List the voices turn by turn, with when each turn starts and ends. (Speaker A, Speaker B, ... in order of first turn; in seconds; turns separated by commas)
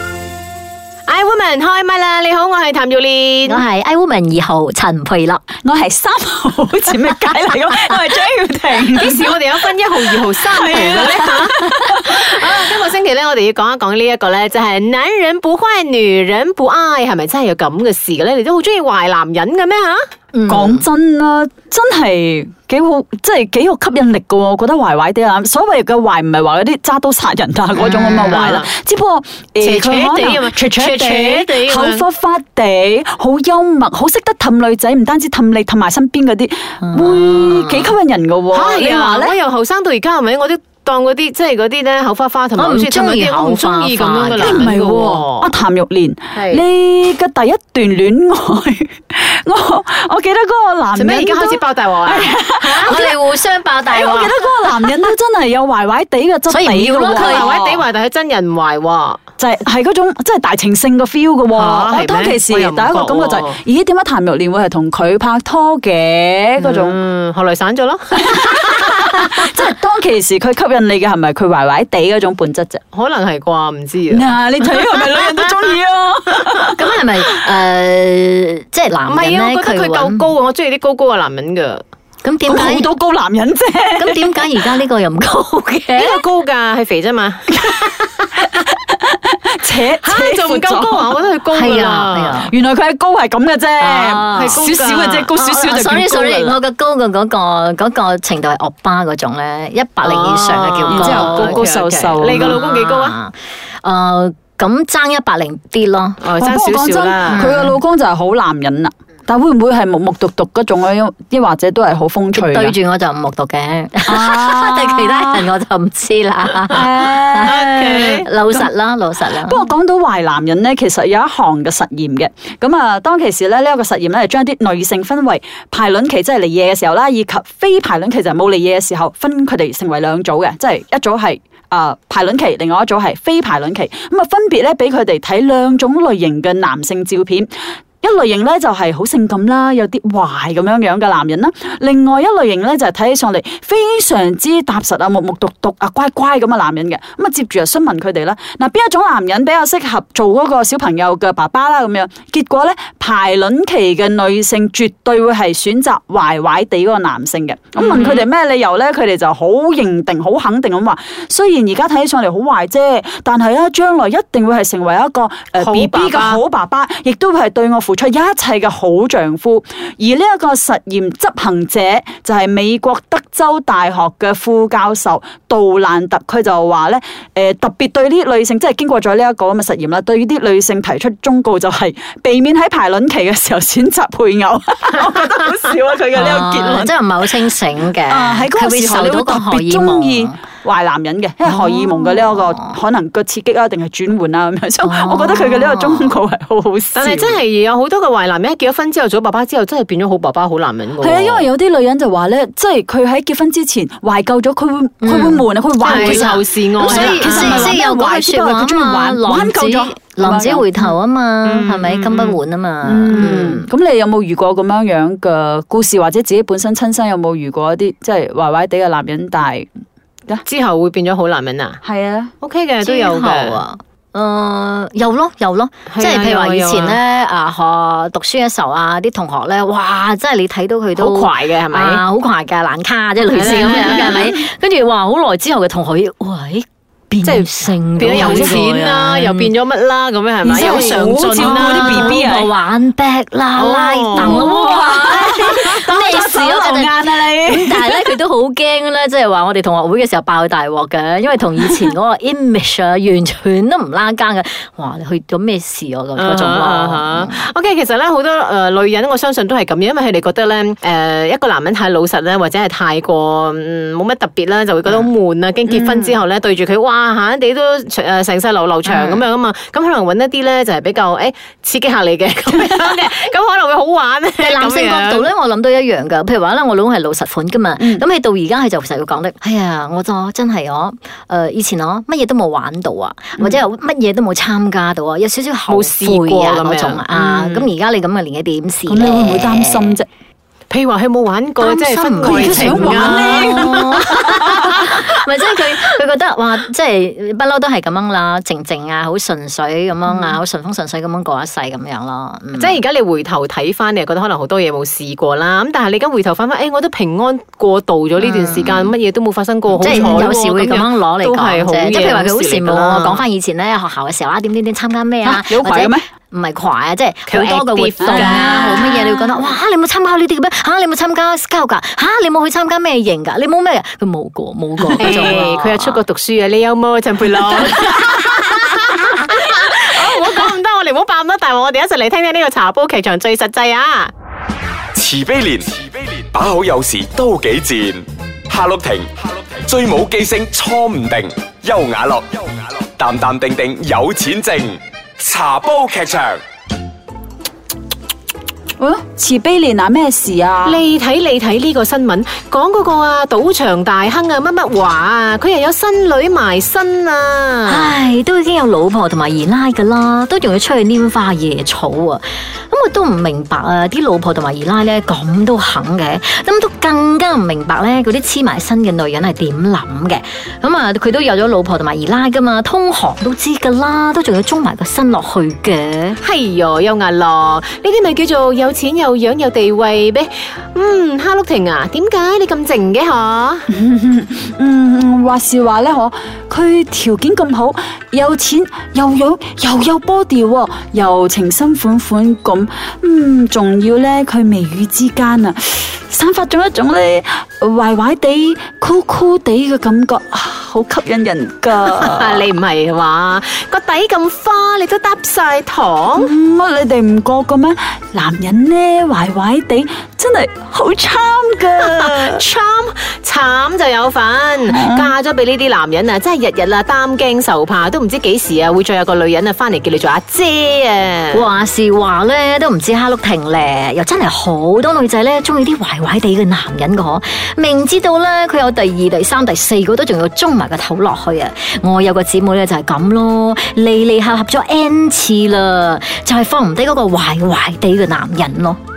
Speaker A: 1.1-3.6, Speaker B: 3.5-5.4, Speaker C: 5.6-12.1, Speaker A: 8.9-20.1, Speaker B: 20.3-20.9, Speaker C: 20.5-39.4, Speaker A: 27.8-28.7, Speaker A: 29.6-32.0, Speaker B: 36.8-37.9, Speaker A: 38.5-45.5, Speaker B: 42.6-44.7, Speaker C: 44.4-53.2, Speaker A: 46.3-46.6, Speaker A: 50.9-53.0, Speaker B: 52.8-55.0, Speaker C: 53.9-57.8, Speaker B: 56.5-57.5, Speaker A: 57.0-59.2, Speaker C: 59.4-67.0, Speaker A: 61.5-63.6, Speaker A: 66.6-69.3, Speaker C: 68.1-72.8, Speaker A: 72.9-75.2, Speaker C: 74.1-76.8, Speaker B: 76.8-80.3, Speaker A: 79.1-81.8, Speaker B: 82.2-82.9, Speaker C: 82.5-84.5, Speaker B: 84.0-86.2, Speaker A: 85.9-88.3, Speaker C: 88.4-91.1, Speaker A: 90.0-92.4, Speaker B: 91.5-92.5, Speaker C: 92.4-96.6, Speaker B: 93.8-94.6, Speaker A: 94.3-95.3, Speaker B: 95.3-101.7, Speaker A: 100.0-103.2, Speaker C: 100.9-102.6, Speaker B: 102.2-106.2, Speaker A: 106.2-107.5, Speaker C: 106.4-112.8, Speaker B: 107.3-107.8, Speaker B: 112.3-119.7, Speaker C: 114.0-115.5, Speaker C: 116.7-118.7, Speaker A: 117.4-118.3, Speaker C: 119.3-137.5, Speaker C: 138.0-186.9, Speaker A: 157.8-158.3, Speaker A: 165.6-166.4, Speaker B: 186.1-190.4, Speaker C: 188.1-197.4, Speaker B: 191.4-192.8, Speaker B: 194.8-196.2, Speaker A: 196.9-201.5, Speaker C: 201.0-210.8, Speaker B: 205.0-213.7, Speaker A: 205.8-207.8, Speaker A: 211.4-212.4, Speaker C: 212.8-219.7, Speaker A: 213.1-213.4, Speaker A: 220.4-221.8, Speaker C: 221.8-222.3, Speaker A: 222.4-223.6, Speaker B: 222.8-239.5, Speaker A: 225.9-227.0, Speaker A: 230.9-232.0, Speaker A: 233.3-234.3, Speaker C: 233.4-234.3, Speaker A: 237.2-242.2, Speaker C: 238.0-238.6, Speaker C: 240.4-242.5, Speaker B: 240.5-257.4, Speaker A: 243.6-245.1, Speaker C: 244.1-248.2, Speaker A: 256.1-275.3, Speaker C: 265.7-266.1, Speaker B: 268.9-269.2, Speaker B: 274.4-290.0, Speaker C: 277.8-278.1, Speaker A: 285.7-287.6, Speaker C: 288.9-290.1, Speaker A: 290.7-294.9, Speaker B: 291.6-302.8, Speaker C: 292.2-294.5, Speaker A: 300.1-300.4, Speaker A: 302.5-313.2, Speaker B: 308.2-308.9, Speaker C: 309.7-310.3, Speaker B: 309.8-326.0, Speaker C: 315.2-316.0, Speaker A: 317.3-319.0, Speaker C: 318.1-319.4, Speaker C: 324.8-325.2, Speaker A: 324.9-334.1, Speaker D: 334.9-346.4, Speaker C: 348.8-350.8, Speaker A: 350.6-357.9, Speaker B: 357.7-376.2, Speaker A: 376.2-383.7, Speaker C: 383.7-402.4, Speaker A: 401.8-406.3, Speaker C: 406.1-412.4, Speaker A: 411.8-421.4, Speaker C: 414.7-415.1, Speaker B: 421.3-438.8